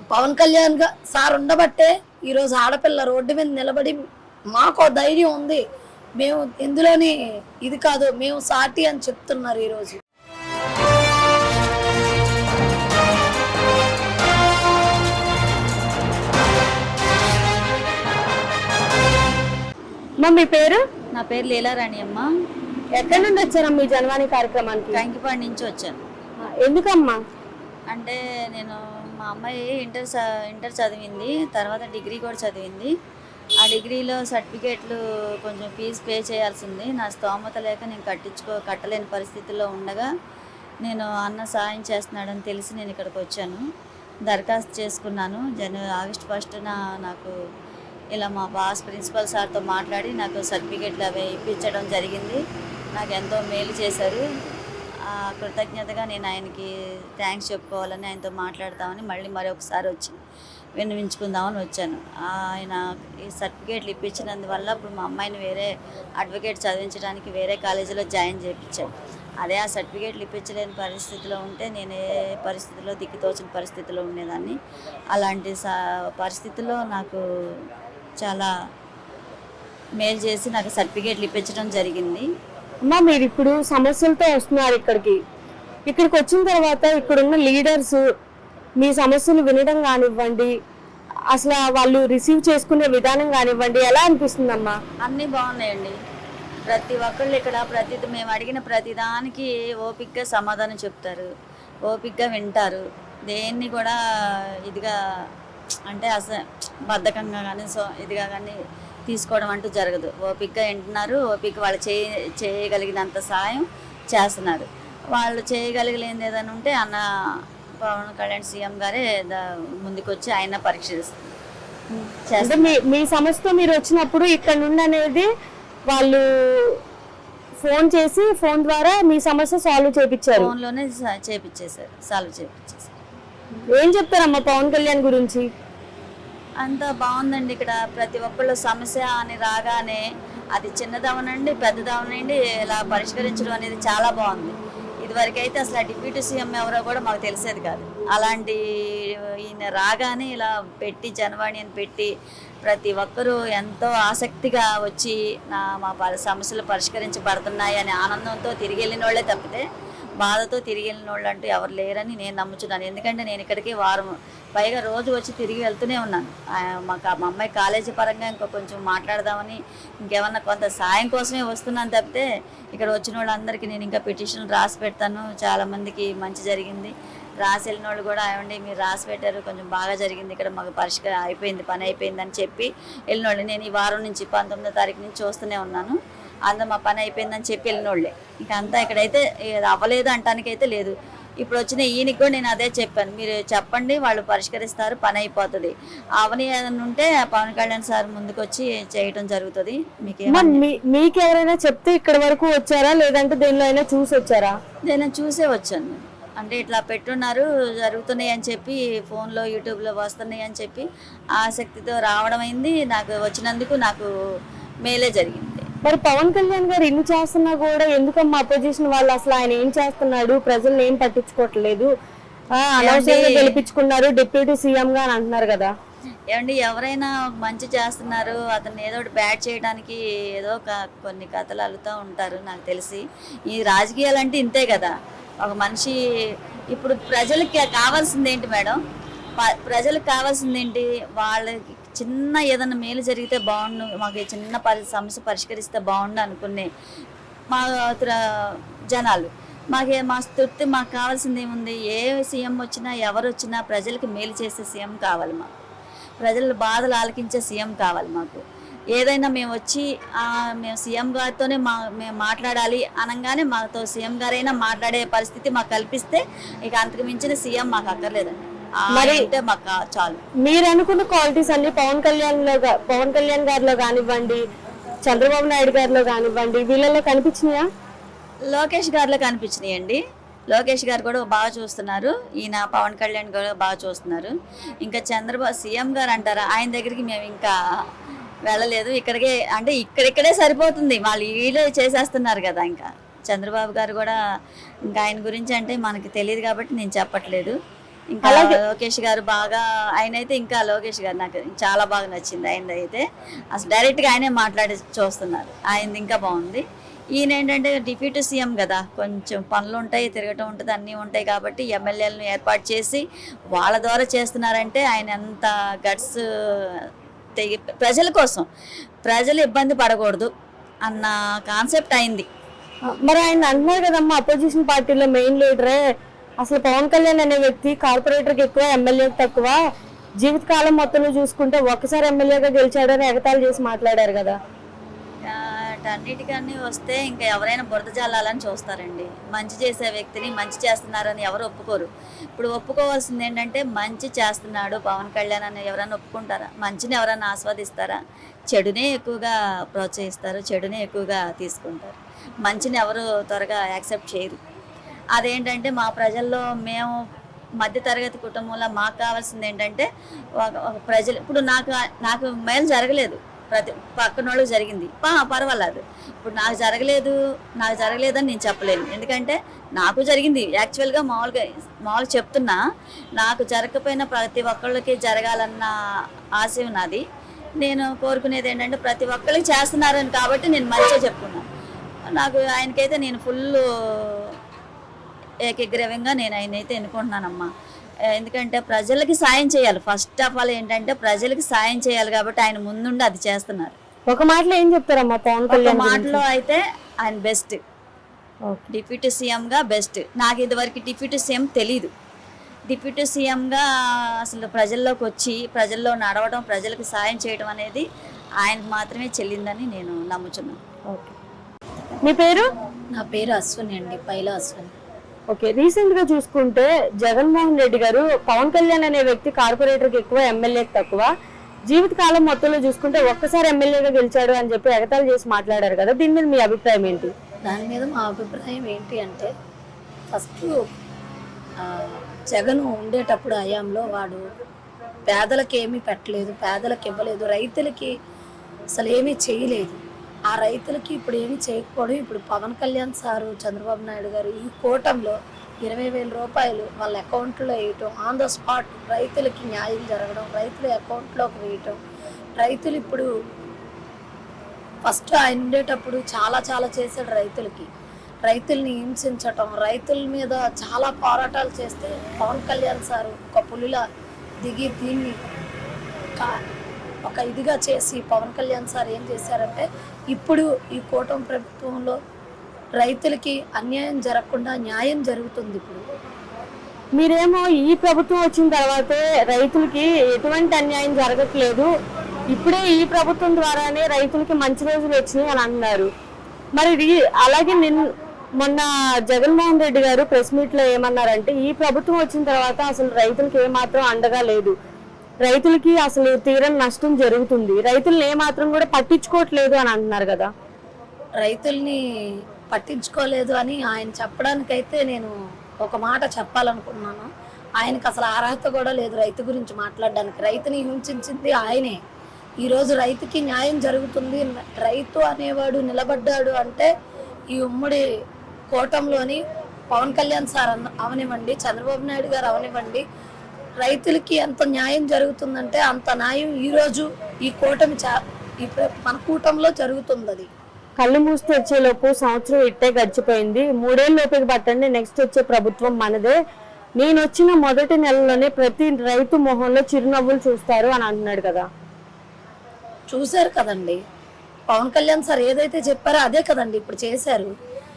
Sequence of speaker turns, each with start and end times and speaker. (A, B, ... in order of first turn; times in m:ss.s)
0:00.1-0:04.0 A
0:04.5-0:05.6 A
0:06.2-0:07.1 A
0:07.6-0:10.0 A
0:20.2-0:20.8 B
0:21.1-0:22.2 C
0:23.0-0:25.0 B
0:24.9-0:26.0 C
0:26.6-0:27.2 B
0:27.9-0:32.9 C
0:33.6-0:40.1 C
0:40.8-0:43.6 C
0:44.3-0:47.3 C
0:48.2-0:52.4 C
0:53.0-0:54.2 C
0:55.1-1:00.2 C
1:00.8-1:14.6 C
1:15.1-1:17.2 C
1:18.2-1:18.5 C
1:20.0-1:22.3 C
1:22.9-1:25.2 B
1:25.9-1:28.0 B
1:28.8-1:30.5 B
1:31.3-1:34.8 B
1:35.0-1:36.0 C
1:36.7-1:41.3 C
1:41.9-1:44.0 C
1:44.7-1:44.9 C
1:45.9-1:48.6 C
1:49.1-1:57.0 C
1:57.8-2:01.3 C
2:02.2-2:02.8 C
2:02.4-2:05.3 B
2:05.9-2:06.7 B
2:07.6-2:10.5 B
2:10.3-2:13.0 C
2:13.7-2:15.4 B
2:16.6-2:20.0 C
2:20.6-2:28.6 C
2:29.4-2:32.1 C
2:32.6-2:39.6 C
2:40.2-3:06.0 C
3:06.5-3:20.6 C
3:20.3-3:24.6 B
3:24.8-3:34.1 C
3:34.9-3:35.7 C
3:35.8-3:41.9 B
3:42.6-3:45.7 B
3:42.8-3:43.5 C
3:46.3-3:56.0 C
3:56.7-3:58.8 C
3:59.4-4:06.7 C
4:07.5-4:15.5 C
4:16.2-4:18.4 C
4:18.9-4:30.2 C
4:28.9-4:29.2 B
4:30.4-4:34.4 B
4:35.0-4:37.6 B
4:38.5-4:44.3 C
4:44.8-4:47.5 C
4:48.5-4:54.2 C
4:54.9-4:57.5 C
4:58.1-5:06.6 C
4:58.2-4:58.6 B
5:07.2-5:16.2 C
5:17.4-5:18.5 C
5:19.0-5:20.3 C
5:20.9-5:22.2 C
5:23.0-5:25.8 B
5:26.4-5:29.6 B
5:30.2-5:34.4 B
5:35.2-5:48.0 C
5:48.5-5:54.4 C
5:55.2-5:56.9 C
5:57.6-5:59.9 C
6:00.4-6:12.6 C
6:13.2-6:15.7 C
6:16.4-6:17.0 C
6:17.6-6:21.4 C
6:22.1-6:24.2 C
6:25.5-6:27.5 C
6:28.1-6:33.8 C
6:34.1-6:36.2 B
6:35.5-6:37.6 C
6:38.7-6:41.9 C
6:42.7-6:43.6 C
6:44.3-6:47.8 C
6:48.4-6:50.6 C
6:50.9-6:51.1 B
6:52.0-6:52.5 B
6:52.9-6:54.7 A
6:55.3-7:01.1 B
7:01.7-7:07.1 B
7:07.4-7:09.3 A
7:10.1-7:10.6 A
7:11.6-7:14.2 A
7:15.1-7:17.9 A
7:18.8-7:19.8 A
7:20.3-7:31.8 A
7:32.4-7:33.1 A
7:34.8-7:37.7 A
7:38.2-7:43.8 A
7:44.4-7:45.2 A
7:47.0-7:52.0 A
7:52.8-7:55.8 A
7:57.0-8:01.7 B
8:02.3-8:05.9 B
8:06.6-8:07.8 B
8:08.4-8:14.5 B
8:15.2-8:20.3 B
8:21.2-8:21.8 A
8:22.5-8:25.1 A
8:25.6-8:27.1 A
8:27.6-8:31.8 A
8:32.4-8:36.7 A
8:37.3-8:37.8 A
8:38.5-8:42.8 A
8:43.6-8:50.3 A
8:50.8-8:56.2 B
8:56.8-9:01.4 B
9:02.9-9:03.8 A
9:04.5-9:07.3 A